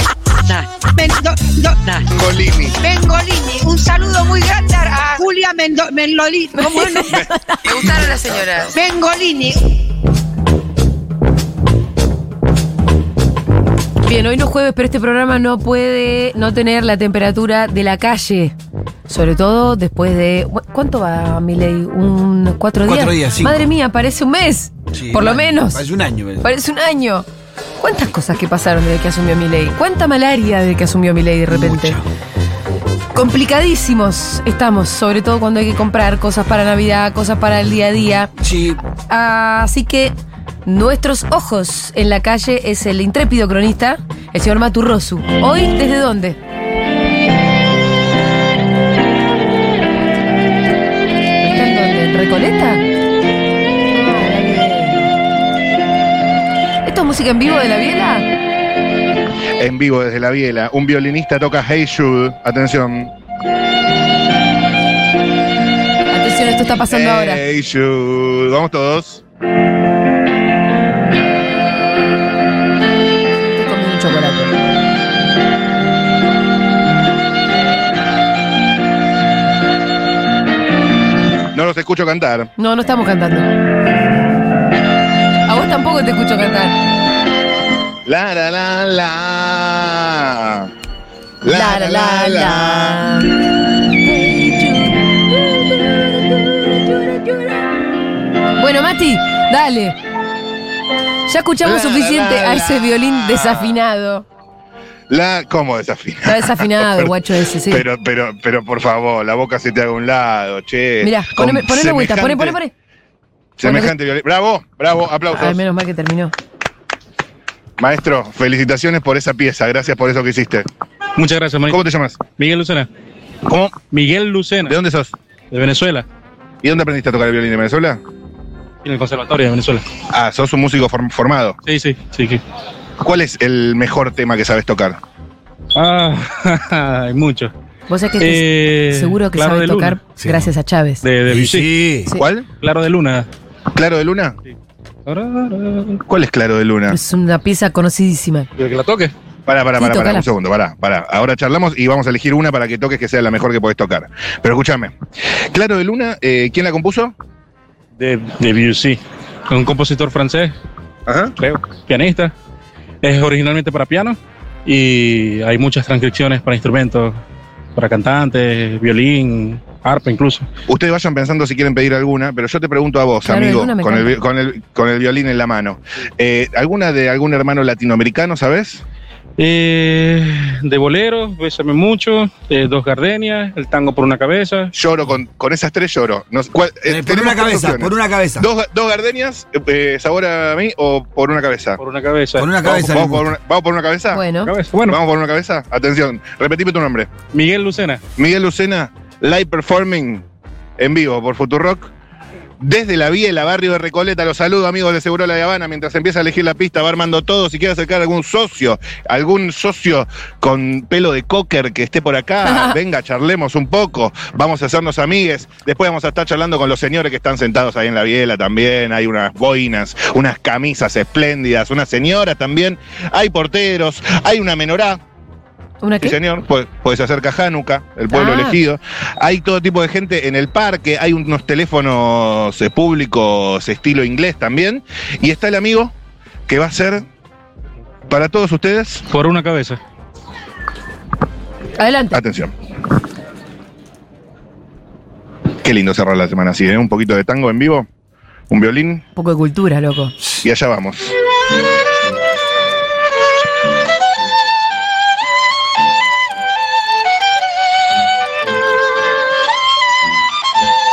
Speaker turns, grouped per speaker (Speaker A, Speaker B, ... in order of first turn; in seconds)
Speaker A: 0.4-2.1, 2.8-7.2, 8.7-9.6
Speaker B: 2.1-2.7, 59.6-63.1, 66.9-69.2, 81.5-82.5, 88.0-90.7, 91.4-93.0, 101.6-103.7, 105.1-107.1, 107.7-112.6, 113.6-115.6, 117.8-120.7, 121.7-122.2, 123.5-123.8, 124.7-125.1, 126.6-128.0, 130.1-131.6, 133.0-135.0, 142.1-142.5, 143.7-144.3, 146.1-147.0, 149.4-154.9, 155.5-157.1, 161.1-161.3, 170.7-178.8, 184.7-191.8, 192.6-194.2, 194.9-197.1, 198.2-200.2, 200.8-201.9, 202.6-225.0, 226.0-235.9, 236.5-237.1, 238.1-239.0, 242.1-242.5, 245.6-247.9, 248.5-249.0, 250.4-251.1
Speaker C: 6.5-8.7, 14.0-18.5, 19.1-25.8, 26.4-27.3, 27.8-32.0, 33.1-38.3, 39.1-40.1, 40.6-46.4, 51.4-52.8, 53.9-55.1, 56.8-58.2, 66.1-67.4, 73.4-74.6, 82.6-83.5, 85.5-86.7, 91.5-93.4, 94.0-97.2, 98.6-100.0, 101.3-104.2, 106.2-107.8, 111.0-112.7, 113.6-113.9, 115.3-116.3, 137.9-141.0, 146.9-148.5, 149.8-150.3, 173.2-174.2, 194.1-194.5, 212.4-212.7, 225.8-226.2, 228.1-228.6, 241.8-242.2, 249.1-250.1
Speaker D: 22.8-23.6, 24.9-26.4, 31.5-32.0, 38.4-38.8, 140.2-140.5, 141.3-142.1, 186.9-188.5, 192.3-193.4
Speaker E: 121.2-122.9, 123.8-124.7, 125.5-126.0, 128.8-129.8, 131.7-132.4, 135.7-137.5, 138.2-140.0, 141.0-141.7, 142.6-143.3, 145.1-146.0, 148.6-149.1, 158.0-160.5, 161.4-162.3, 163.0-167.2, 167.7-170.5, 179.4-184.7, 191.8-192.7, 194.4-195.0, 197.3-198.0, 239.1-239.8